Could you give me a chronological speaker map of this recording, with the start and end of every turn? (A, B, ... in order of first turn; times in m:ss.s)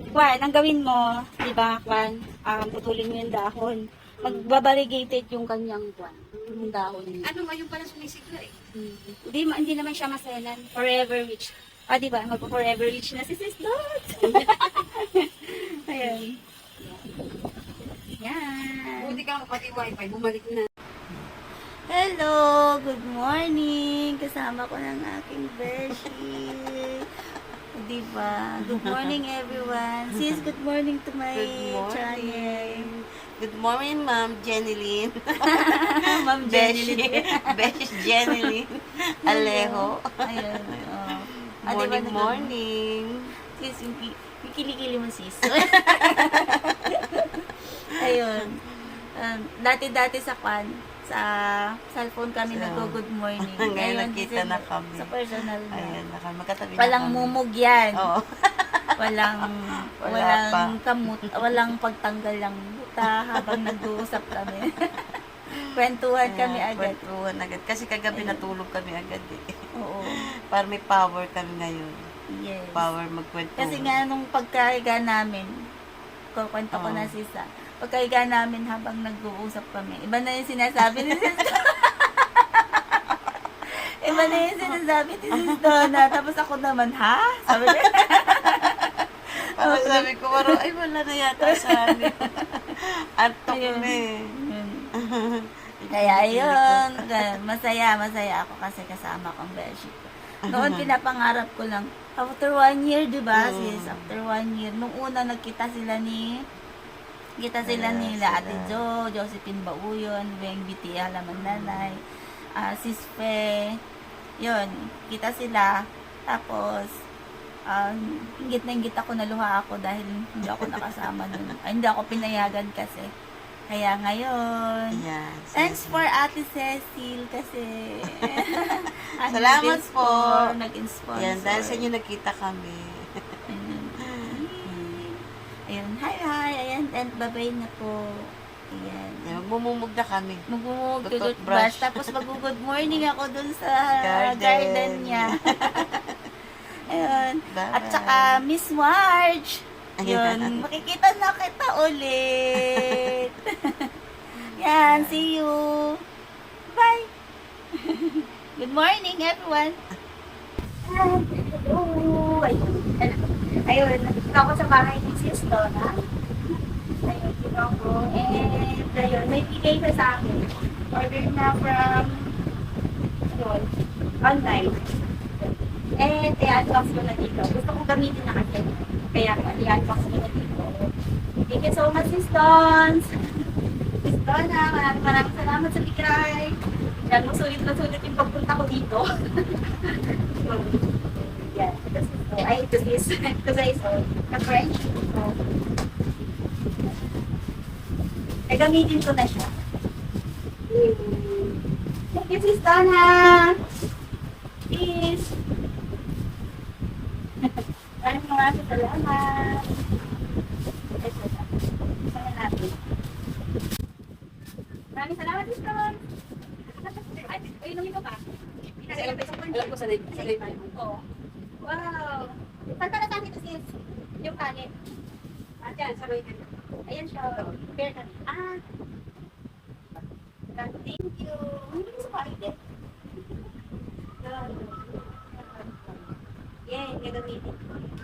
0:00.1-0:07.3 A
0:04.2-0:04.5 B
0:06.4-0:06.7 B
0:07.2-0:09.2 B
0:09.2-0:16.3 A
0:14.2-0:14.5 B
0:18.2-0:19.2 A
0:19.0-0:20.7 B
0:21.9-0:27.0 A
0:27.8-0:32.9 A
0:28.6-0:29.1 C
0:31.4-0:35.8 C
0:35.5-0:38.5 A
0:36.4-0:43.2 C
0:39.3-0:42.6 A
0:43.6-0:48.6 A
0:45.6-0:46.6 C
0:49.2-0:56.0 A
0:52.5-0:55.1 C
0:55.7-0:57.4 C
0:56.8-0:58.1 A
0:58.0-0:58.9 C
0:59.0-1:04.7 A
1:00.0-1:01.7 C
1:05.7-1:07.0 A
1:06.2-1:09.4 C
1:08.1-1:08.5 A
1:09.8-1:10.2 A
1:10.5-1:12.0 C
1:12.3-1:12.9 A
1:12.7-1:14.0 C
1:13.6-1:15.5 A
1:16.3-1:23.2 A
1:16.7-1:17.1 C
1:20.9-1:21.5 C
1:24.0-1:30.6 A
1:24.1-1:24.8 C
1:25.4-1:26.1 C
1:27.6-1:27.9 C
1:29.6-1:34.1 C
1:31.4-1:32.3 A
1:33.5-1:34.8 A
1:35.0-1:37.4 C
1:35.9-1:46.3 A
1:40.5-1:40.9 C
1:43.4-1:44.1 C
1:47.4-1:52.0 A
1:47.6-1:48.8 C
1:51.4-1:51.9 C
1:52.6-1:53.6 A
1:54.4-1:55.8 A
1:56.3-1:56.9 A
1:57.7-2:03.1 A
2:00.4-2:01.5 C
2:03.7-2:05.0 A
2:05.0-2:06.0 C
2:05.5-2:11.9 A
2:09.3-2:10.4 C
2:11.2-2:13.0 C
2:13.5-2:18.0 A
2:14.2-2:15.0 C
2:18.7-2:19.4 A
2:19.3-2:20.4 C
2:20.5-2:25.9 A
2:21.0-2:22.3 C
2:24.0-2:26.2 C
2:26.9-2:33.9 A
2:26.9-2:28.4 C
2:30.0-2:30.6 C
2:32.6-2:33.1 C
2:34.4-2:35.3 C
2:34.6-2:36.0 A
2:36.7-2:37.1 A
2:37.8-2:39.8 A
2:40.8-2:46.0 A
2:47.0-2:52.4 A
2:53.3-2:53.7 A
2:54.2-2:54.8 A
2:56.0-3:00.9 A
3:01.5-3:03.1 A
3:04.0-3:15.4 A
3:18.5-3:19.5 A
3:20.7-3:21.6 A
3:22.1-3:23.6 A
3:24.7-3:25.3 A
3:27.4-3:29.7 A
3:31.0-3:31.5 A
3:32.1-3:32.8 A
3:34.9-3:36.0 A
3:37.0-3:38.2 A
3:38.8-3:41.0 A
3:38.8-3:40.8 B
3:41.6-3:44.7 A
3:45.6-3:46.5 B
3:46.9-3:48.6 A
3:47.3-3:47.6 B
3:50.5-3:52.6 A
3:54.2-3:56.1 B
3:56.7-3:57.6 A